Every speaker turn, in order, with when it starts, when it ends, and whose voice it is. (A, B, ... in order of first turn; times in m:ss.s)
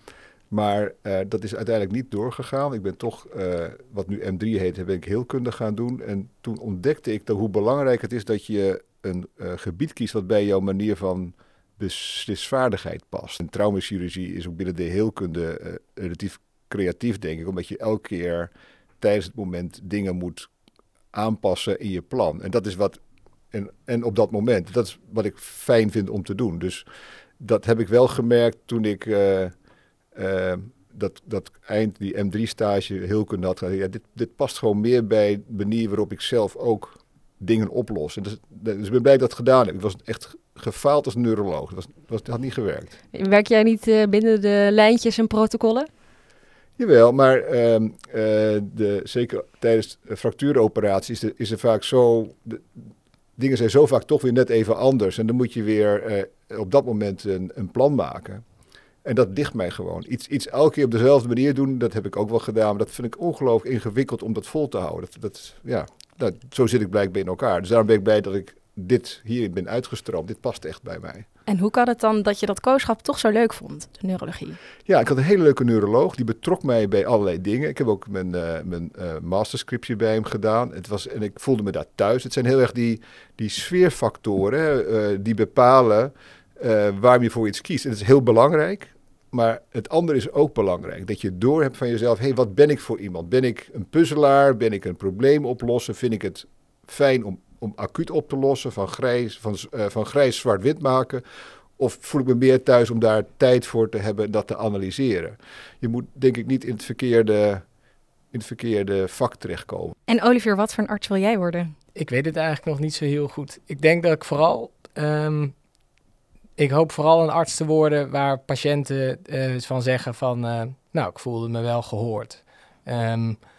0:00.5-0:20.5 A
0:21.1-0:23.0 A
0:23.5-0:26.8 A
0:27.4-0:29.6 A
0:30.2-0:42.9 A
0:43.1-0:45.9 B
0:46.8-0:52.9 A
0:53.4-0:58.4 A
0:59.0-1:11.3 A
1:11.5-1:14.6 C
1:14.9-1:41.2 A
1:41.8-1:47.6 A
1:48.3-1:50.0 A
1:50.1-1:51.7 C
1:52.0-1:55.6 D
1:56.6-2:03.4 D